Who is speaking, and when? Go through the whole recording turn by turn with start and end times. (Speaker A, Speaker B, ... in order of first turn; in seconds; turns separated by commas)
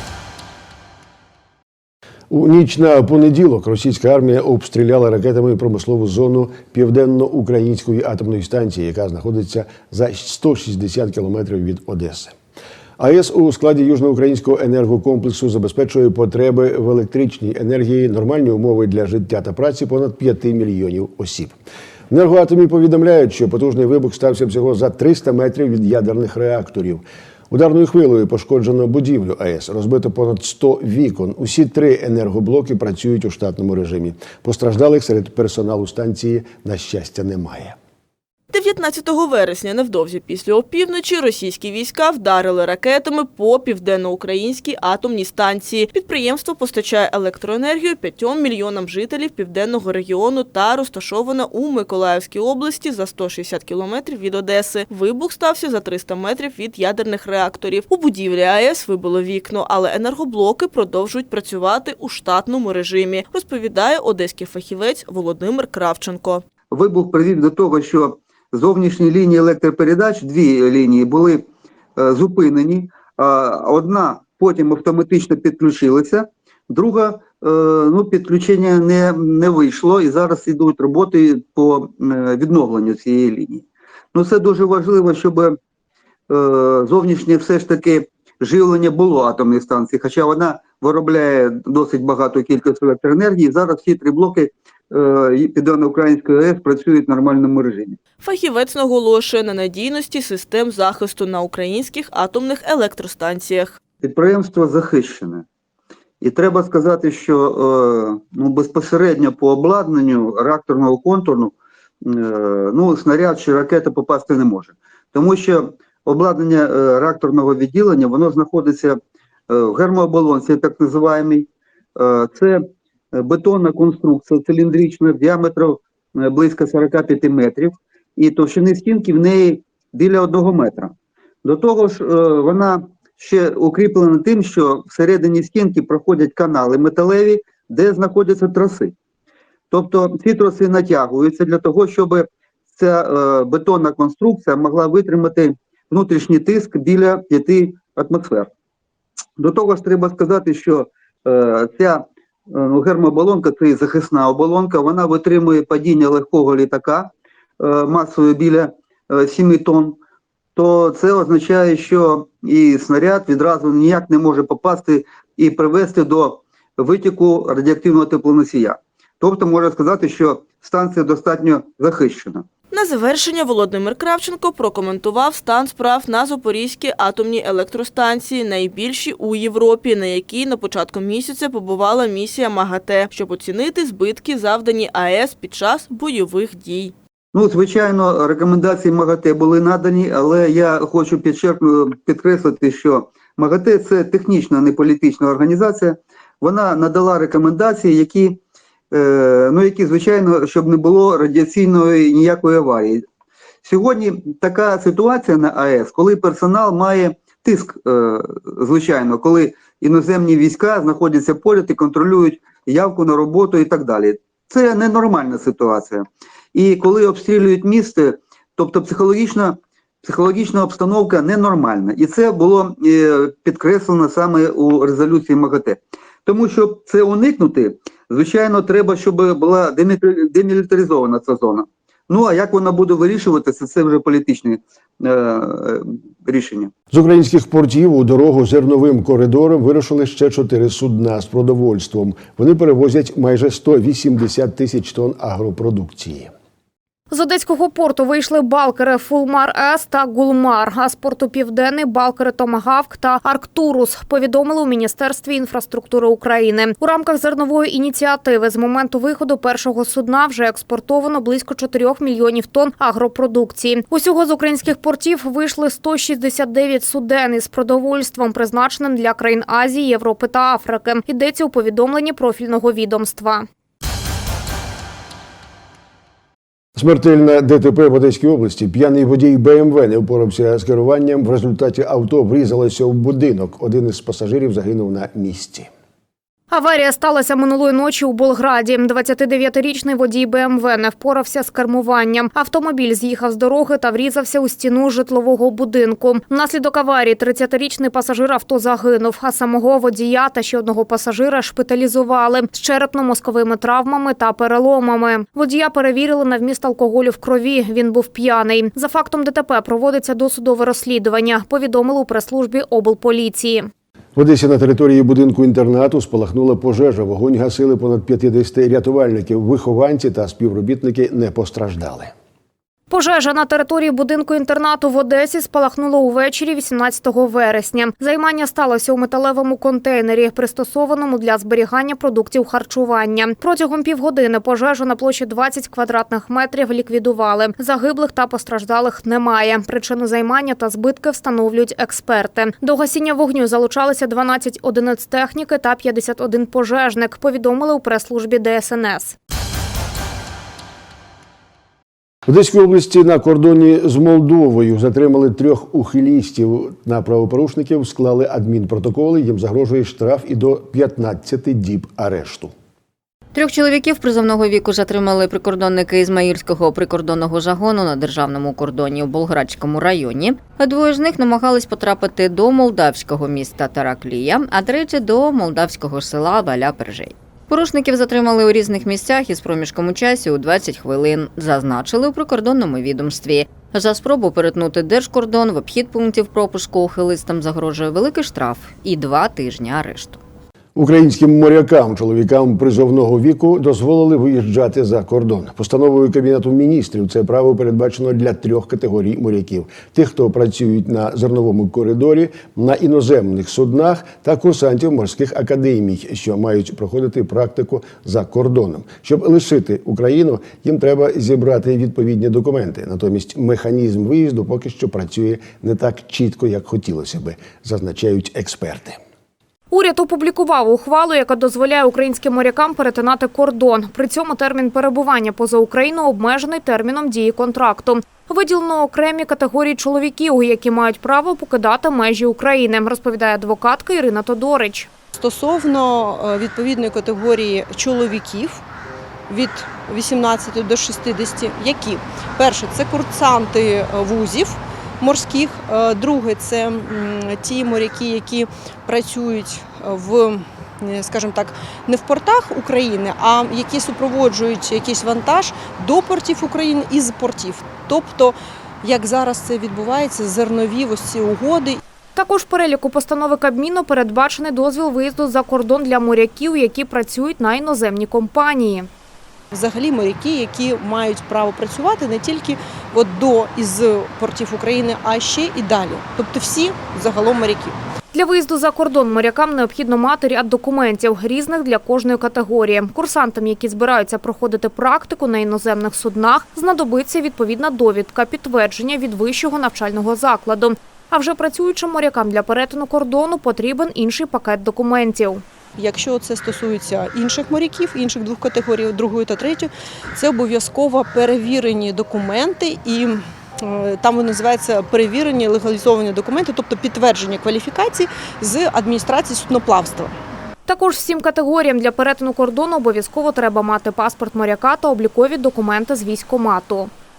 Speaker A: 2.3-12.3, Speaker A: 13.0-21.6, Speaker A: 22.1-37.8, Speaker B: 38.5-66.4, Speaker C: 66.7-85.6, Speaker C: 86.3-98.0, Speaker B: 98.2-103.8, Speaker C: 104.0-105.4, Speaker C: 106.2-111.5, Speaker C: 112.0-119.0, Speaker C: 119.5-130.9, Speaker C: 131.4-138.9, Speaker C: 139.7-148.5, Speaker C: 149.4-160.0, Speaker C: 160.5-172.5, Speaker B: 172.7-186.9, Speaker C: 187.3-198.4, Speaker C: 198.9-203.0, Speaker C: 203.6-236.7, Speaker A: 236.9-246.3, Speaker D: 247.1-273.5, Speaker A: 276.8-285.7, Speaker D: 286.5-313.7, Speaker A: 314.1-322.1, Speaker D: 322.9-349.1, Speaker A: 352.2-362.5, Speaker E: 363.3-390.2, Speaker A: 390.8-419.0, Speaker D: 419.7-434.9, Speaker F: 435.1-438.6, Speaker F: 439.3-461.8, Speaker D: 462.1-468.9, Speaker F: 469.5-477.8, Speaker D: 478.1-495.4, Speaker F: 495.8-510.1, Speaker D: 510.7-516.9